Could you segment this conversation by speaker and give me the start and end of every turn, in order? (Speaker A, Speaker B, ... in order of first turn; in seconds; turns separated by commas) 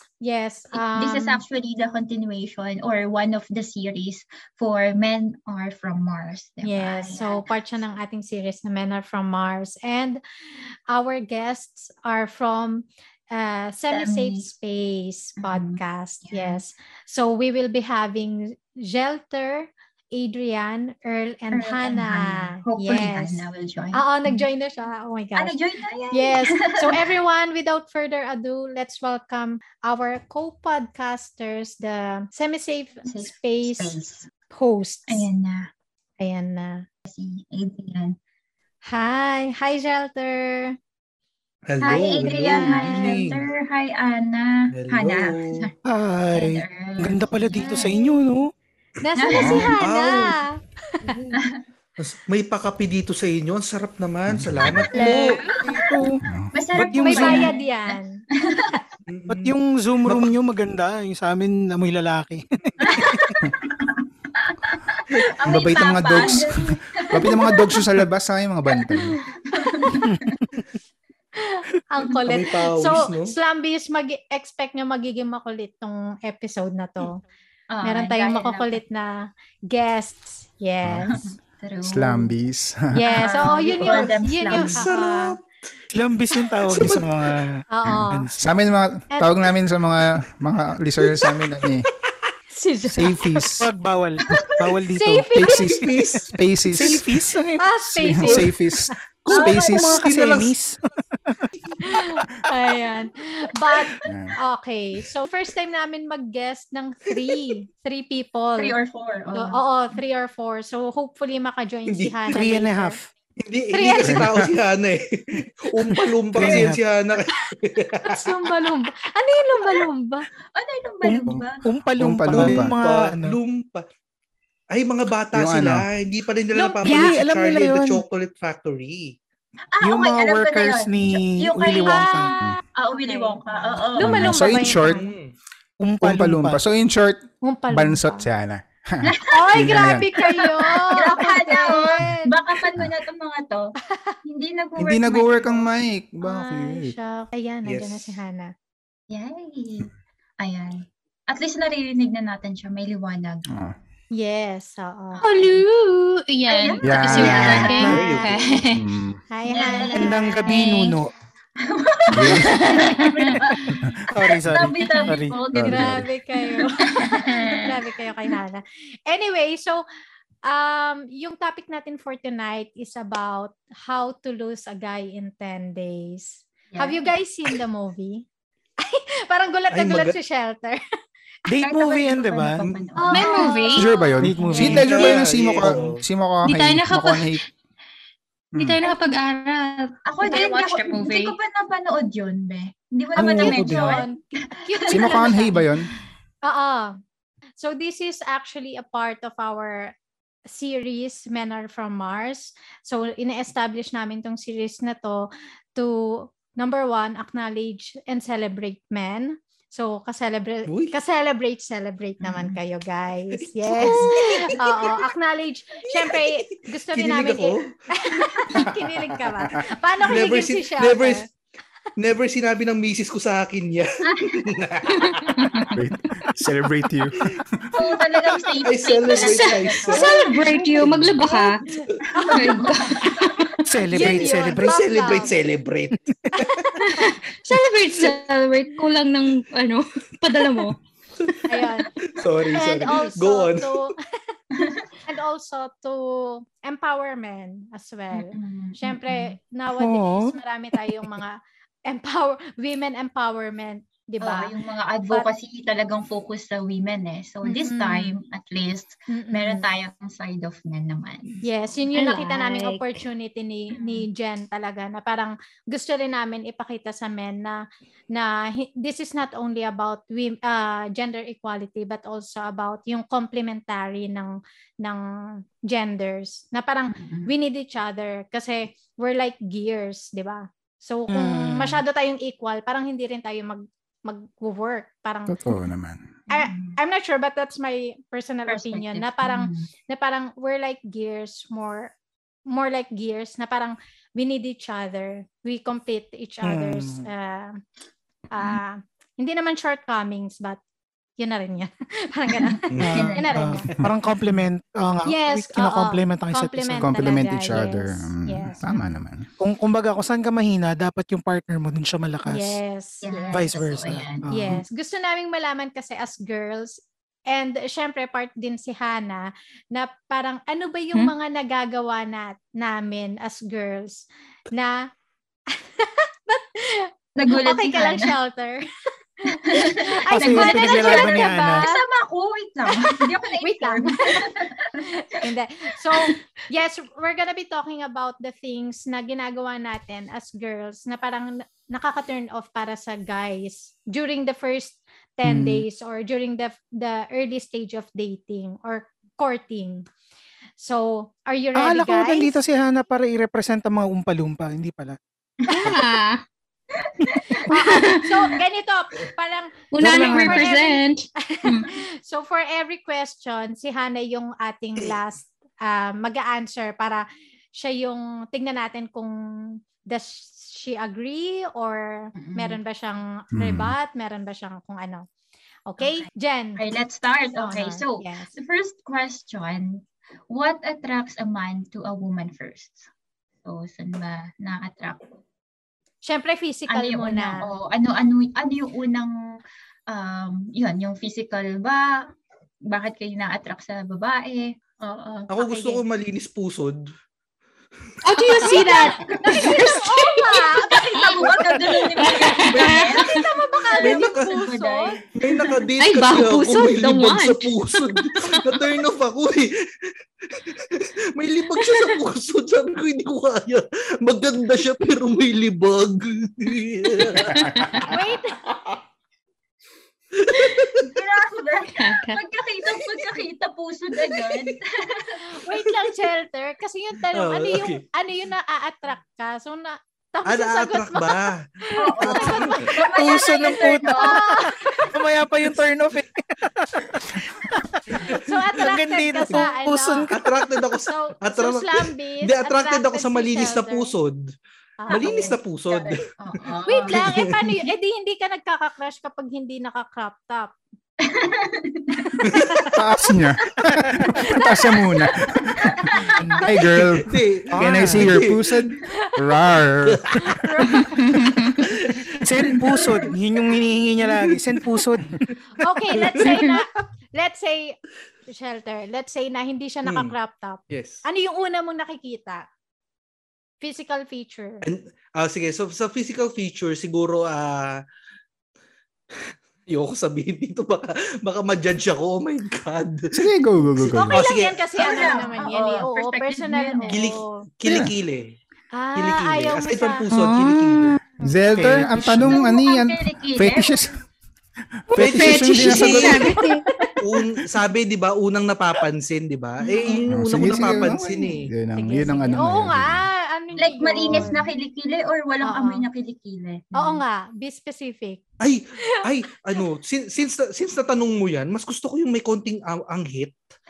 Speaker A: 0.2-1.4, Speaker B: 0.7-7.5, Speaker A: 6.6-10.2, Speaker A: 10.9-25.6, Speaker B: 13.9-14.5, Speaker B: 15.4-16.6, Speaker B: 21.5-24.5, Speaker B: 25.3-27.1, Speaker A: 26.1-35.3, Speaker B: 33.0-34.3, Speaker B: 35.1-35.7, Speaker A: 36.2-36.8, Speaker B: 37.0-38.2, Speaker A: 38.8-40.8, Speaker C: 41.7-43.5, Speaker B: 41.8-45.7, Speaker A: 41.9-43.2, Speaker C: 44.8-45.7, Speaker D: 45.8-48.5, Speaker B: 46.3-48.0, Speaker A: 47.5-48.1, Speaker A: 49.0-51.2, Speaker B: 49.1-49.7, Speaker C: 49.3-50.4, Speaker E: 49.4-49.7, Speaker D: 51.0-51.4, Speaker B: 51.3-51.6, Speaker C: 52.0-55.5, Speaker E: 54.3-54.9, Speaker B: 54.9-56.0, Speaker D: 55.0-57.5, Speaker E: 56.2-56.5, Speaker B: 56.5-58.8, Speaker A: 56.9-58.2, Speaker C: 59.1-60.3, Speaker D: 59.3-63.2, Speaker B: 62.8-67.8, Speaker A: 62.9-63.2, Speaker E: 65.4-69.2, Speaker B: 69.4-70.4, Speaker A: 69.8-70.1, Speaker A: 71.4-77.2, Speaker C: 72.2-73.3, Speaker B: 77.7-78.8, Speaker A: 77.8-81.2, Speaker E: 80.8-81.2, Speaker B: 81.0-82.3, Speaker E: 81.8-83.1, Speaker A: 82.9-85.4, Speaker B: 83.0-84.9, Speaker C: 83.8-85.4, Speaker D: 85.9-88.4, Speaker C: 86.4-87.2, Speaker A: 87.7-88.3, Speaker E: 87.9-91.9, Speaker A: 89.1-89.5, Speaker A: 92.5-93.1, Speaker E: 92.9-93.7, Speaker D: 93.4-95.3, Speaker B: 94.2-94.7, Speaker A: 94.9-95.7, Speaker E: 95.3-97.1, Speaker C: 95.7-96.3, Speaker D: 96.7-98.5, Speaker C: 96.8-97.0, Speaker A: 97.6-98.9, Speaker E: 98.1-100.0, Speaker C: 99.2-100.5, Speaker B: 99.3-99.8, Speaker D: 99.6-101.4, Speaker A: 101.8-108.7, Speaker B: 103.8-104.2, Speaker E: 104.0-104.3, Speaker B: 108.6-109.6, Speaker A: 109.3-113.0, Speaker C: 111.9-112.3, Speaker D: 112.3-113.1, Speaker C: 113.4-118.3, Speaker A: 113.7-114.3, Speaker E: 114.0-114.5, Speaker D: 116.3-116.8, Speaker A: 118.0-120.2, Speaker B: 120.5-121.6, Speaker D: 121.0-123.4, Speaker E: 122.0-122.7, Speaker C: 122.3-123.8, Speaker C: 124.7-129.2, Speaker E: 125.3-125.9, Speaker A: 126.5-127.2, Speaker D: 126.8-128.0, Speaker B: 129.7-134.6, Speaker D: 129.8-132.4, Speaker A: 131.8-135.1, Speaker E: 134.0-135.0, Speaker C: 134.8-135.3, Speaker D: 135.8-136.6, Speaker E: 136.0-140.2, Speaker A: 137.4-138.2, Speaker B: 139.0-139.5, Speaker A: 139.3-142.3, Speaker B: 140.2-145.7, Speaker E: 144.8-146.9, Speaker A: 146.2-148.5, Speaker C: 147.7-147.9, Speaker B: 149.1-153.5, Speaker A: 154.1-155.2, Speaker B: 155.2-155.6, Speaker F: 155.2-158.9, Speaker B: 156.5-158.6, Speaker E: 156.8-157.8, Speaker A: 157.1-158.4, Speaker C: 157.2-158.5, Speaker E: 158.7-159.2, Speaker A: 159.3-160.6, Speaker B: 159.4-160.9, Speaker D: 159.9-161.1, Speaker B: 161.6-167.6, Speaker E: 162.1-162.8, Speaker F: 162.3-163.4, Speaker D: 164.1-165.4, Speaker E: 165.5-166.1, Speaker A: 165.5-169.8, Speaker F: 167.3-167.7, Speaker A: 170.4-178.2, Speaker B: 176.7-177.0, Speaker A: 178.8-180.8, Speaker C: 179.7-180.2, Speaker D: 181.5-182.6, Speaker B: 181.6-183.9, Speaker A: 182.9-184.7, Speaker F: 183.1-183.9, Speaker E: 183.8-187.4, Speaker D: 184.2-185.1, Speaker B: 184.4-185.1, Speaker C: 184.7-186.0, Speaker F: 186.4-187.4, Speaker F: 188.6-191.4, Speaker B: 190.0-195.3, Speaker D: 193.1-194.0, Speaker A: 193.2-195.6, Speaker E: 194.9-195.9, Speaker A: 196.4-197.0, Speaker A: 197.6-199.9, Speaker A: 200.5-221.3, Speaker C: 210.7-210.9, Speaker B: 212.2-212.6, Speaker C: 213.4-215.0, Speaker C: 215.9-216.4, Speaker C: 216.9-218.7, Speaker E: 218.6-219.6, Speaker C: 220.0-221.2, Speaker C: 222.0-225.7, Speaker B: 224.0-224.6, Speaker F: 225.0-225.8, Speaker E: 225.7-227.8, Speaker B: 227.7-230.7, Speaker C: 228.6-230.1, Speaker F: 229.1-231.6, Speaker C: 230.7-231.5, Speaker A: 231.8-232.5, Speaker B: 232.0-233.6, Speaker F: 232.2-233.6, Speaker D: 233.7-235.2, Speaker A: 233.9-235.4, Speaker C: 233.9-236.8, Speaker A: 236.3-237.1, Speaker F: 236.9-241.4, Speaker A: 241.5-241.9, Speaker C: 242.0-243.9, Speaker A: 242.5-243.9, Speaker B: 244.5-244.9, Speaker A: 245.1-254.5, Speaker B: 248.1-249.3, Speaker D: 249.7-250.3, Speaker B: 254.2-261.4, Speaker A: 257.4-258.2, Speaker A: 259.1-259.7, Speaker A: 261.4-267.6, Speaker F: 261.9-263.0, Speaker B: 263.7-264.1, Speaker A: 268.1-285.5, Speaker B: 276.9-277.3, Speaker D: 281.1-281.8, Speaker E: 285.3-286.0, Speaker B: 286.3-286.8, Speaker A: 286.3-291.9, Speaker B: 288.5-289.7, Speaker A: 292.5-297.6, Speaker D: 296.4-297.1, Speaker A: 298.3-300.6, Speaker A: 301.2-303.7, Speaker B: 302.5-303.6, Speaker C: 302.7-303.1, Speaker D: 302.8-306.9, Speaker A: 305.1-308.8, Speaker E: 306.8-309.2, Speaker D: 309.4-312.6, Speaker A: 312.3-313.4, Speaker B: 313.0-314.3, Speaker D: 313.3-314.6, Speaker A: 314.3-324.9, Speaker A: 325.5-328.6, Speaker B: 327.1-328.1, Speaker A: 329.2-331.8, Speaker B: 329.3-334.9, Speaker D: 330.1-331.7, Speaker A: 332.7-349.9, Speaker E: 345.2-345.6, Speaker A: 350.6-352.3, Speaker D: 351.5-355.0, Speaker B: 355.4-355.8, Speaker F: 355.5-356.2, Speaker B: 356.7-357.6, Speaker A: 357.5-375.1, Speaker F: 357.5-358.3, Speaker F: 359.7-361.7, Speaker D: 359.8-360.3, Speaker B: 360.1-360.4, Speaker B: 372.1-372.6, Speaker E: 373.3-373.7, Speaker A: 375.7-376.6, Speaker B: 375.8-382.8, Speaker A: 377.4-378.3, Speaker B: 383.4-385.1, Speaker A: 386.0-387.5, Speaker B: 386.7-392.1, Speaker B: 392.6-395.3, Speaker C: 395.3-396.9, Speaker A: 395.4-395.8, Speaker F: 398.0-401.1, Speaker A: 398.4-401.5, Speaker B: 398.5-399.8, Speaker B: 401.0-405.3, Speaker F: 402.0-403.2, Speaker A: 402.6-405.0, Speaker C: 403.8-404.4, Speaker C: 405.1-409.5, Speaker F: 405.8-408.2, Speaker C: 410.3-417.4, Speaker F: 411.6-411.9, Speaker F: 417.0-417.9, Speaker E: 417.3-417.8, Speaker A: 417.9-418.4, Speaker C: 420.1-420.9, Speaker B: 420.8-425.2, Speaker F: 421.7-422.2, Speaker C: 424.0-424.5, Speaker A: 425.3-432.7, Speaker C: 425.6-425.9, Speaker C: 427.1-427.8, Speaker C: 430.2-432.7, Speaker B: 431.8-434.9, Speaker D: 432.8-440.2, Speaker A: 433.8-434.9, Speaker A: 437.9-440.1, Speaker C: 440.1-444.3, Speaker A: 440.7-443.9, Speaker A: 444.8-445.4, Speaker C: 444.9-447.3, Speaker B: 444.9-447.1, Speaker A: 446.6-450.6, Speaker B: 451.0-452.3, Speaker C: 452.2-452.7, Speaker E: 452.7-455.8, Speaker A: 454.3-454.8, Speaker B: 455.1-455.9, Speaker A: 455.7-456.2, Speaker D: 456.2-456.4, Speaker E: 456.4-460.1, Speaker C: 456.7-458.7, Speaker D: 457.5-458.2, Speaker C: 459.8-460.3, Speaker A: 460.2-460.9, Speaker F: 460.8-461.6, Speaker C: 461.6-462.2, Speaker D: 462.2-465.3, Speaker A: 465.6-472.4, Speaker D: 466.2-466.5, Speaker C: 469.8-470.1, Speaker C: 470.7-471.0, Speaker A: 473.6-474.6, Speaker C: 474.6-477.8, Speaker C: 479.7-483.2, Speaker E: 483.1-484.2, Speaker A: 483.8-487.4, Speaker C: 484.1-485.0, Speaker B: 484.8-487.1, Speaker C: 486.9-488.3, Speaker E: 487.6-487.9, Speaker A: 488.7-490.1, Speaker C: 488.9-491.0, Speaker F: 490.1-491.0, Speaker A: 491.2-492.0, Speaker E: 491.2-493.9, Speaker D: 491.5-492.4, Speaker B: 492.1-493.7, Speaker E: 494.9-496.4, Speaker F: 494.9-496.9, Speaker C: 495.0-496.4, Speaker A: 496.6-496.9, Speaker C: 497.0-501.5, Speaker B: 499.7-500.0, Speaker E: 500.1-503.1, Speaker A: 501.8-504.4, Speaker B: 503.6-507.0, Speaker A: 505.4-505.9, Speaker A: 506.7-508.2, Speaker C: 508.4-513.4